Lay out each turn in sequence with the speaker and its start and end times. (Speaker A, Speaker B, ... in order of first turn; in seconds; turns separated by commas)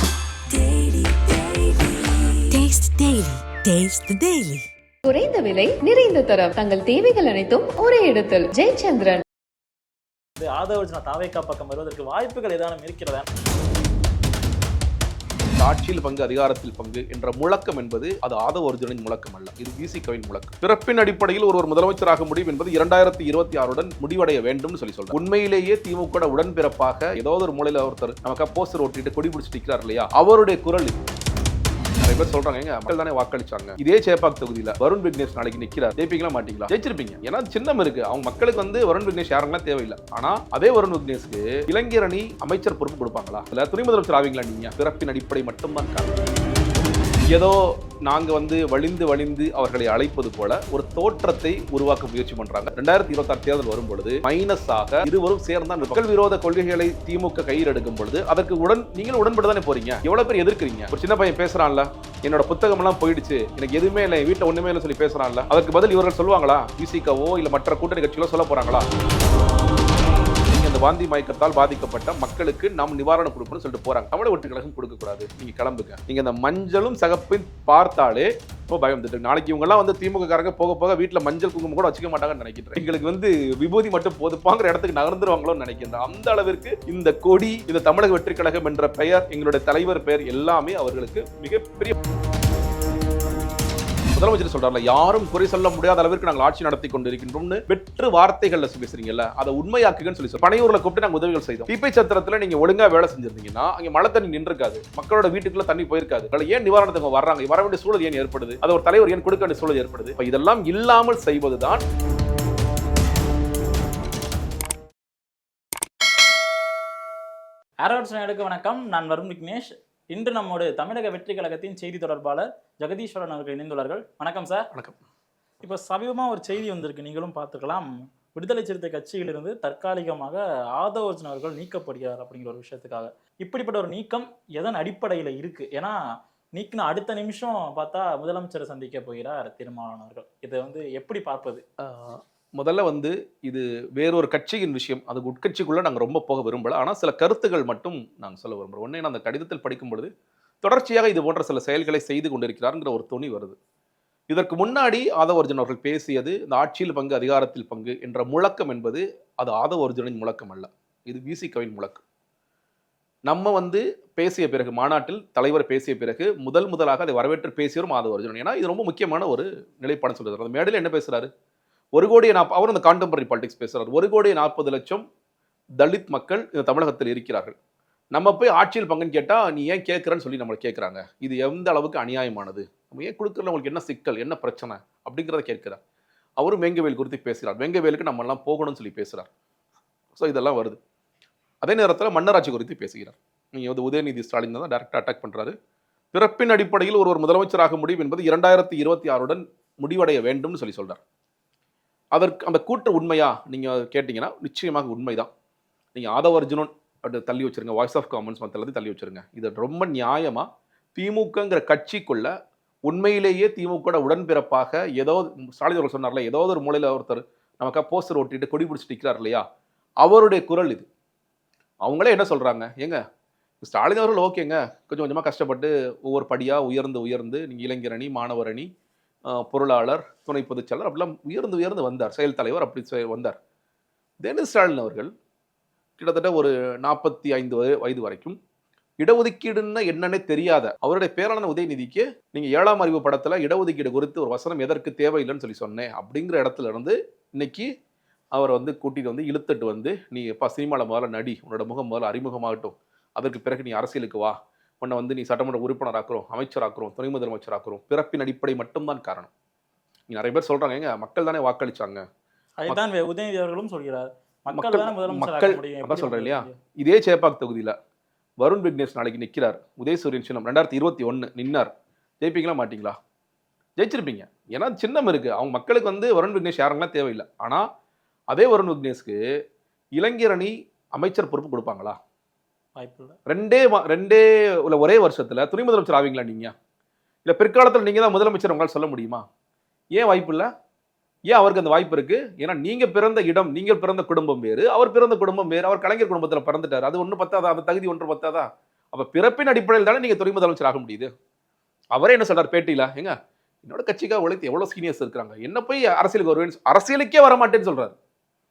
Speaker A: 0.5-4.6, Speaker B: 5.1-9.2, Speaker C: 10.4-13.2, Speaker D: 15.6-31.0, Speaker D: 32.0-46.3, Speaker D: 47.3-68.9, Speaker D: 70.5-91.9, Speaker D: 94.1-111.8, Speaker C: 117.8-124.7, Speaker D: 124.7-125.0, Speaker C: 125.6-135.9, Speaker C: 136.6-141.6, Speaker D: 141.8-150.1, Speaker D: 150.6-153.6, Speaker D: 154.3-162.0, Speaker D: 163.3-171.3, Speaker D: 171.9-175.0, Speaker D: 175.8-177.5, Speaker D: 178.1-185.8, Speaker D: 186.4-189.3, Speaker D: 190.2-190.8, Speaker D: 191.6-195.5, Speaker D: 196.1-201.0, Speaker D: 202.1-205.3, Speaker D: 205.9-212.3, Speaker D: 212.9-219.4, Speaker D: 220.0-220.9, Speaker D: 221.8-223.0, Speaker D: 223.6-228.7, Speaker D: 229.3-233.4, Speaker D: 234.2-235.1, Speaker D: 236.0-238.4, Speaker D: 239.0-247.7, Speaker D: 248.3-259.3, Speaker D: 260.1-262.0, Speaker C: 262.6-266.6, Speaker D: 264.5-267.8, Speaker D: 268.4-271.7, Speaker D: 272.2-273.0, Speaker D: 273.8-277.6, Speaker D: 278.3-279.1, Speaker D: 280.0-282.0, Speaker C: 282.8-283.1, Speaker D: 283.3-286.5, Speaker D: 287.2-289.2, Speaker D: 289.9-290.5, Speaker D: 291.3-301.1, Speaker D: 301.9-307.9